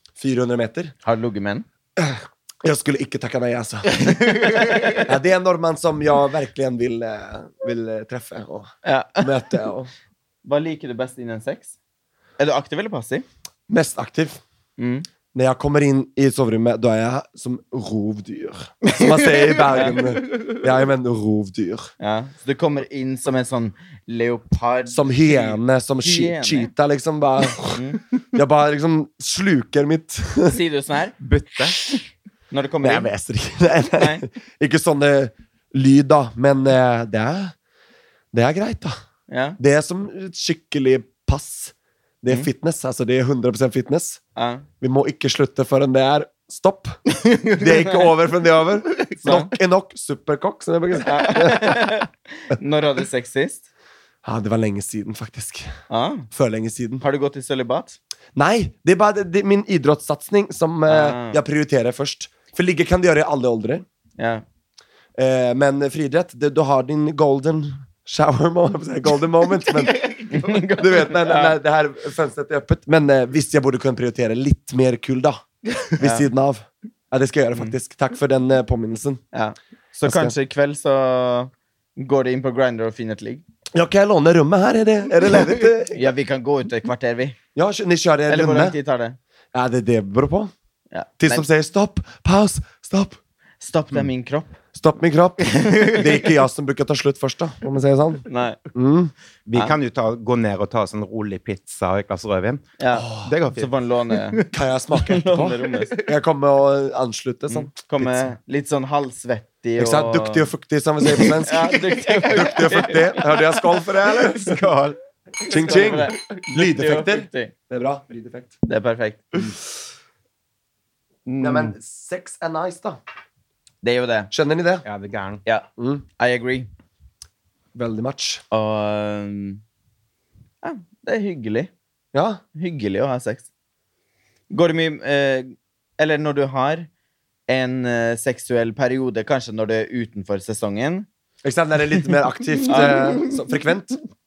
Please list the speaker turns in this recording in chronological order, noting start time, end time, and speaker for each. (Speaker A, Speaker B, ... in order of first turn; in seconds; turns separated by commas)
Speaker A: 0.2-0.9, Speaker B: 1.1-1.6, Speaker A: 2.0-4.2, Speaker B: 4.5-5.0, Speaker A: 5.0-9.9, Speaker B: 8.8-9.3, Speaker B: 10.4-11.7, Speaker B: 12.4-13.2, Speaker A: 13.7-14.4, Speaker B: 14.8-15.1, Speaker A: 15.3-21.9, Speaker B: 19.7-20.0, Speaker B: 22.0-26.7, Speaker A: 24.9-27.8, Speaker B: 27.7-28.0, Speaker A: 28.3-30.6, Speaker B: 30.5-31.2, Speaker C: 31.2-31.9, Speaker B: 32.5-33.1, Speaker A: 32.8-37.5, Speaker B: 34.0-34.2, Speaker A: 38.3-39.0, Speaker B: 39.3-39.6, Speaker A: 39.6-44.2, Speaker B: 44.4-44.6, Speaker A: 44.8-51.8, Speaker B: 49.2-49.5, Speaker B: 51.1-53.6, Speaker A: 54.2-55.7, Speaker B: 55.9-56.3, Speaker A: 56.3-57.0, Speaker B: 57.0-58.0, Speaker A: 58.4-63.8, Speaker B: 60.9-61.4, Speaker B: 64.2-64.4, Speaker A: 65.2-75.4, Speaker B: 70.3-71.5, Speaker A: 76.0-79.2, Speaker B: 76.0-76.3, Speaker B: 79.3-83.4, Speaker A: 80.0-80.3, Speaker A: 83.7-86.1, Speaker B: 85.9-87.4, Speaker A: 87.5-88.8, Speaker B: 88.3-89.2, Speaker A: 89.5-90.5, Speaker B: 90.9-91.4, Speaker A: 91.2-93.2, Speaker B: 93.6-94.6, Speaker A: 94.8-98.2, Speaker B: 95.6-96.0, Speaker B: 98.3-98.6, Speaker A: 98.8-99.1, Speaker C: 99.5-103.7, Speaker B: 102.8-104.4, Speaker A: 103.0-103.3, Speaker A: 104.5-108.3, Speaker B: 105.0-106.0, Speaker B: 107.5-110.5, Speaker A: 109.8-114.6, Speaker B: 111.2-113.2, Speaker C: 113.8-115.0, Speaker A: 115.5-118.5, Speaker B: 115.5-117.5, Speaker B: 118.7-119.5, Speaker B: 121.3-121.7, Speaker A: 121.4-123.0, Speaker B: 123.8-124.3, Speaker A: 124.3-124.9, Speaker C: 124.8-125.4, Speaker A: 125.8-126.0, Speaker B: 126.2-126.7, Speaker A: 127.8-128.4, Speaker B: 128.5-129.6, Speaker B: 130.6-131.7, Speaker A: 132.1-132.4, Speaker B: 132.6-133.5, Speaker B: 134.5-136.9, Speaker B: 137.5-141.1, Speaker A: 141.4-144.0, Speaker B: 142.7-143.0